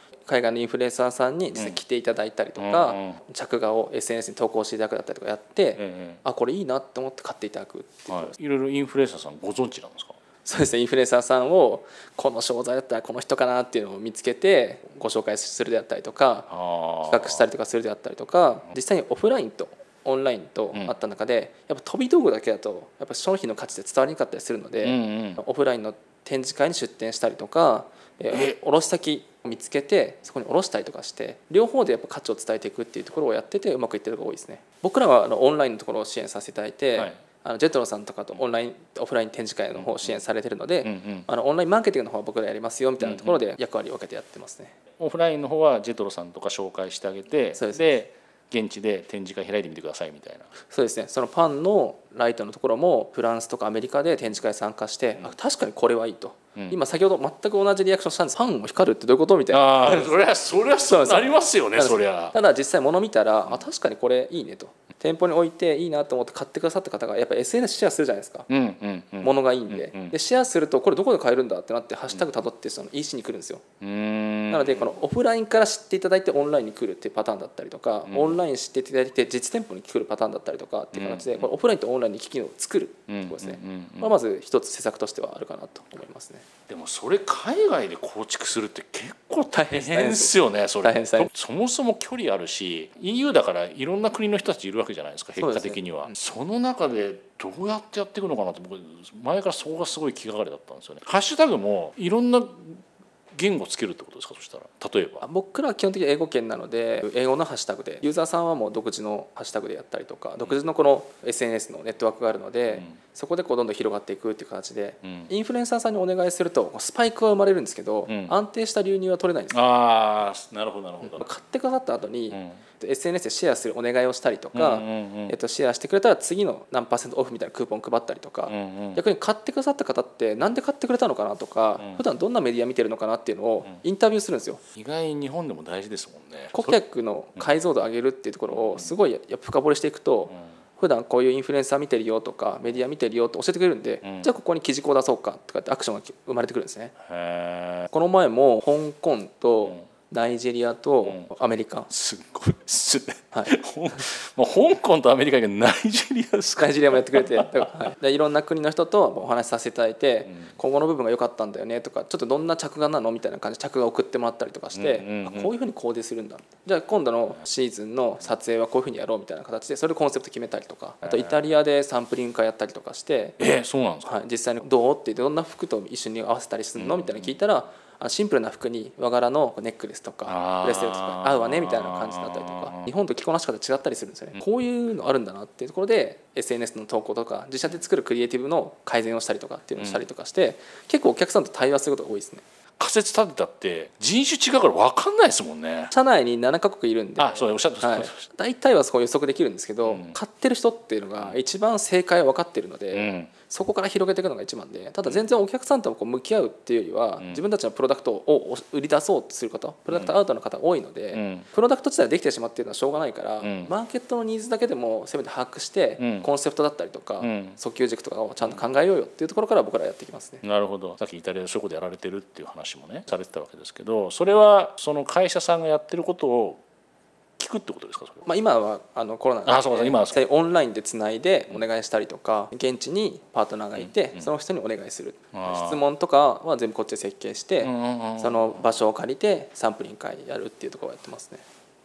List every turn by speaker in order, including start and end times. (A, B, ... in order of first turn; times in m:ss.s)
0:00.3-0:08.3 A
0:02.6-0:03.2 B
0:05.8-0:06.2 B
0:08.1-0:10.2 B
0:10.4-0:16.5 A
0:16.5-0:17.5 B
0:17.1-0:44.8 A
0:24.8-0:25.4 B
0:28.3-0:28.6 B
0:40.8-0:41.3 B
0:43.0-0:43.4 B
0:45.0-0:50.5 B
0:47.6-0:47.9 A
0:50.7-1:08.5 A
0:59.5-1:02.4 B
1:08.5-1:10.2 B
1:09.2-1:13.6 A
1:13.8-1:14.9 B
1:14.5-1:26.4 A
1:18.1-1:18.4 B
1:20.9-1:21.5 B
1:23.1-1:24.1 B
1:26.7-1:42.8 B
1:29.5-1:31.3 A
1:35.4-1:36.2 A
1:43.3-1:45.2 B
1:45.2-1:59.6 A
1:52.7-1:53.0 B
1:55.0-1:55.3 B
1:58.1-1:58.3 B
1:59.5-2:01.2 B
2:01.0-2:14.6 A
2:02.3-2:02.6 B
2:04.5-2:05.4 B
2:08.5-2:09.0 B
2:14.8-2:16.8 B
2:16.5-2:26.9 A
2:18.5-2:18.9 B
2:24.0-2:24.3 B
2:27.0-2:27.9 B
2:27.9-2:31.9 A
2:31.9-2:37.7 B
2:36.6-2:53.4 A
2:44.7-2:45.5 B
2:51.0-2:51.4 B
2:53.4-2:54.2 B
2:54.0-3:12.4 A
2:56.8-2:57.4 B
3:00.3-3:02.8 B
3:09.8-3:10.0 B
3:12.8-3:15.9 B
3:15.9-3:40.4 A
3:17.2-3:18.3 B
3:19.8-3:20.2 B
3:22.9-3:23.3 B
3:31.1-3:31.5 B
3:33.4-3:33.7 B
3:36.0-3:36.3 B
3:37.2-3:37.6 B
3:40.4-3:46.6 B
3:47.4-3:48.3 B
3:48.3-4:01.4 A
3:49.4-3:50.2 B
3:53.8-3:54.3 B
3:55.3-3:55.8 B
3:57.6-3:58.7 B